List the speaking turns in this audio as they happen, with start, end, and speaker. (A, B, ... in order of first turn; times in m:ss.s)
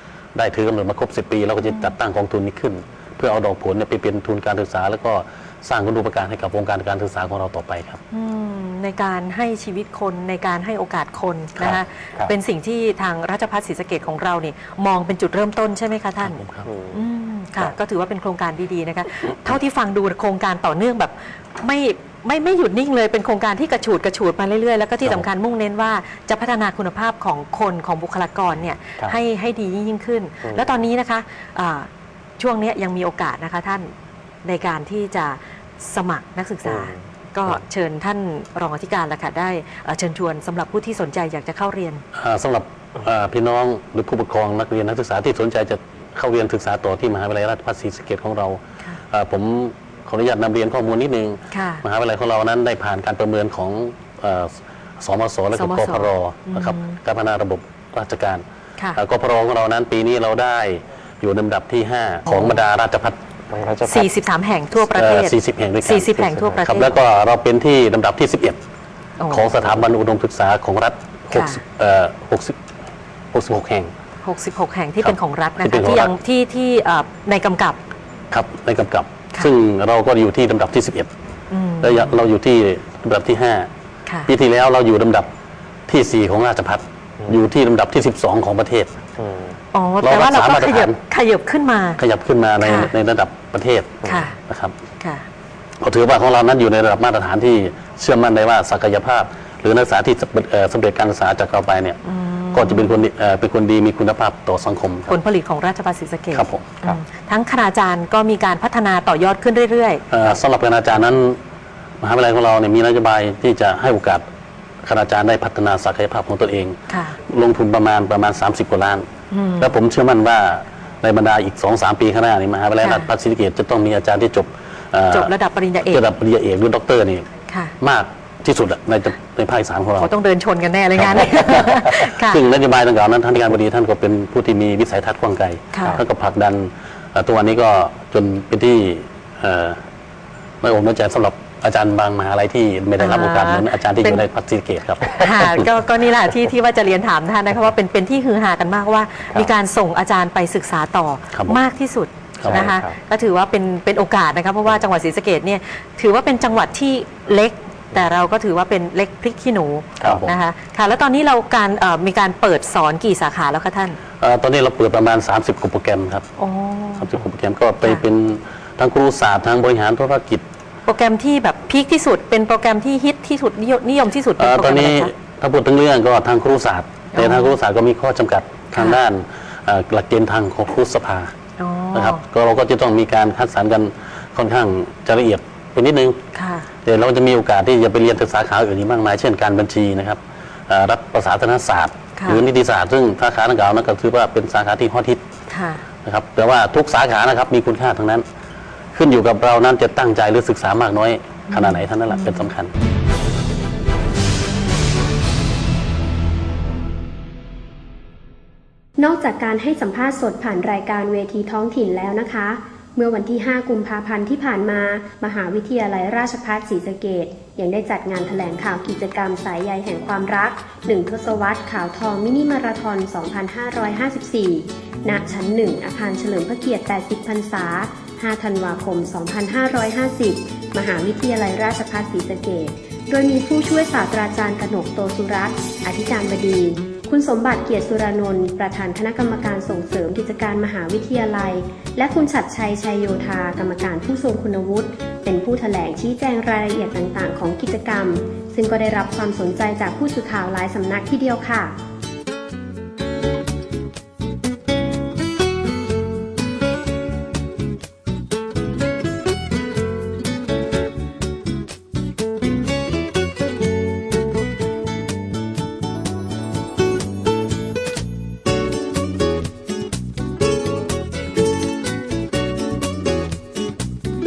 0:00.4-0:08.0 A
0:01.6-0:01.9 B
0:08.1-0:33.9 B
0:11.6-0:12.3 C
0:16.2-0:16.7 A
0:16.6-0:17.0 C
0:30.4-0:30.8 C
0:34.4-0:42.0 B
0:36.6-0:37.0 C
0:42.1-0:58.4 A
0:51.5-0:51.8 B
0:55.6-0:57.0 B
0:59.0-1:03.2 A
1:02.3-1:02.6 B
1:03.5-1:04.1 C
1:03.9-1:06.9 B
1:04.9-1:08.6 A
1:09.2-1:09.5 B
1:09.3-1:12.6 A
1:11.3-1:11.6 B
1:13.3-1:13.9 A
1:14.2-1:17.8 B
1:15.0-1:16.1 A
1:18.3-1:21.1 A
1:21.5-1:22.1 B
1:21.8-1:23.7 A
1:24.3-1:25.3 A
1:25.9-1:29.0 A
1:29.2-1:29.6 C
1:29.7-1:32.0 B
1:30.0-1:31.0 A
1:32.0-1:34.7 A
1:32.6-1:32.9 B
1:34.0-1:34.4 B
1:35.0-1:35.3 B
1:35.8-1:42.0 A
1:42.0-1:43.0 B
1:42.5-1:45.2 A
1:45.1-1:50.0 B
1:46.3-1:46.8 A
1:50.1-1:51.4 A
1:52.0-1:54.2 A
1:54.8-1:59.1 A
1:56.9-1:57.2 B
1:59.3-1:59.8 B
1:59.6-2:05.3 A
2:02.8-2:03.1 B
2:05.1-2:06.0 B
2:05.9-2:07.3 A
2:07.5-2:07.7 B
2:07.8-2:10.1 A
2:10.0-2:12.4 B
2:11.0-2:19.8 A
2:15.7-2:16.0 B
2:20.6-2:25.7 A
2:23.0-2:24.2 B
2:25.1-2:44.0 B
2:31.3-2:31.6 A
2:32.4-2:32.7 A
2:32.4-2:33.0 C
2:40.0-2:40.3 A
2:44.2-2:46.3 A
2:46.4-2:47.1 B
2:47.0-2:50.4 A
2:50.9-2:55.1 B
2:54.4-3:01.3 A
2:57.1-2:57.6 B
3:01.6-3:02.2 B
3:01.9-3:06.2 A
3:06.4-3:06.7 B
3:06.8-3:15.2 A
3:12.2-3:12.4 B
3:15.5-3:15.8 B
3:16.0-3:18.2 A
3:18.9-3:22.7 A
3:21.5-3:22.5 B
3:29.0-4:11.8 D